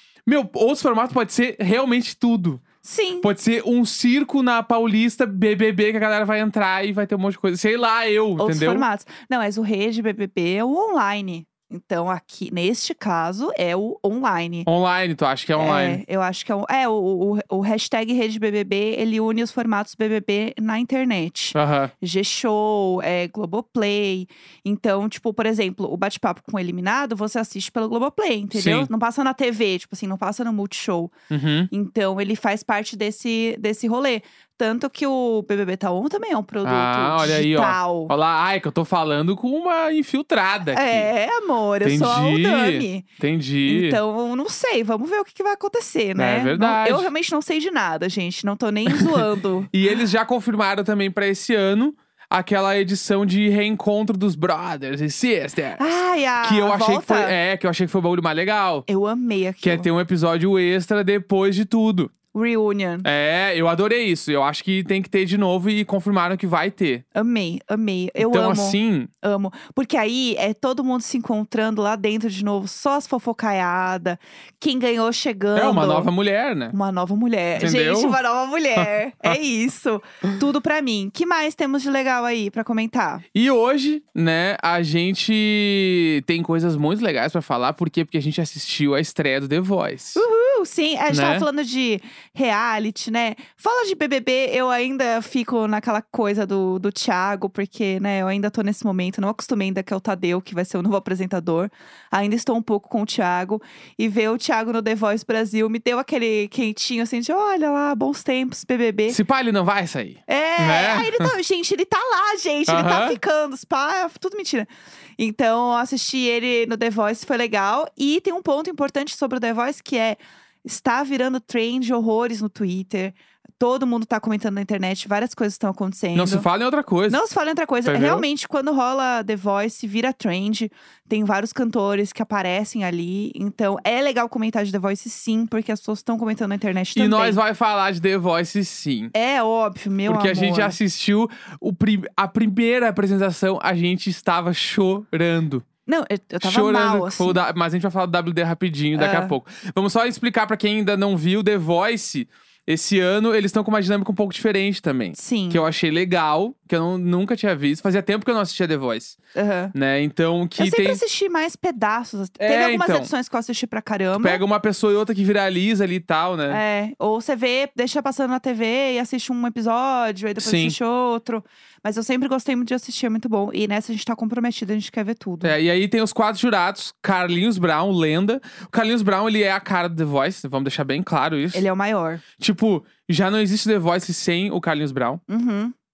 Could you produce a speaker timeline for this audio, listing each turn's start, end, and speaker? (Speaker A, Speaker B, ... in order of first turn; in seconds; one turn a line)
Speaker A: 0.2-2.6
Speaker B: 2.8-3.3
Speaker A: 3.2-8.8
Speaker B: 8.4-14.7
Speaker A: 14.7-16.0
Speaker B: 15.6-31.1
Speaker A: 21.5-21.9
Speaker A: 28.5-28.9
Speaker A: 31.3-31.7
Speaker B: 31.7-38.1
Speaker A: 36.6-41.1
Speaker B: 40.7-43.0
Speaker A: 41.8-44.0
Speaker B: 43.6-49.7
Speaker A: 46.2-47.1
Speaker A: 48.9-58.9
Speaker B: 55.8-57.3
Speaker B: 58.9-59.9
Speaker A: 59.6-62.1
Speaker B: 62.3-63.1
Speaker A: 63.0-67.0
Speaker B: 67.1-76.1
Speaker A: 68.2-69.1
Speaker A: 75.5-76.7
Speaker B: 76.7-83.2
Speaker A: 77.6-78.2
Speaker A: 83.3-90.2
Speaker B: 90.1-109.2
Speaker A: 91.1-91.5
Speaker A: 109.1-111.3
Speaker B: 110.3-126.5
Speaker A: 112.7-113.2
Speaker A: 126.1-127.2
Speaker B: 127.1-137.4
Speaker A: 127.8-128.2
Speaker A: 136.9-139.1
Speaker B: 139.1-140.8
Speaker A: 140.1-145.6
Speaker B: 145.8-147.4
Speaker A: 146.4-159.2
Speaker B: 148.9-149.3
Speaker B: 155.2-155.6
Speaker B: 159.3-159.7
Speaker A: 159.7-161.0
Speaker B: 160.6-164.4
Speaker A: 162.4-163.1
Speaker A: 164.2-166.6
Speaker B: 166.5-175.5
Speaker A: 170.4-170.8
Speaker A: 175.4-181.6
Speaker B: 181.5-182.2
Speaker A: 182.4-185.2
Speaker B: 185.3-185.7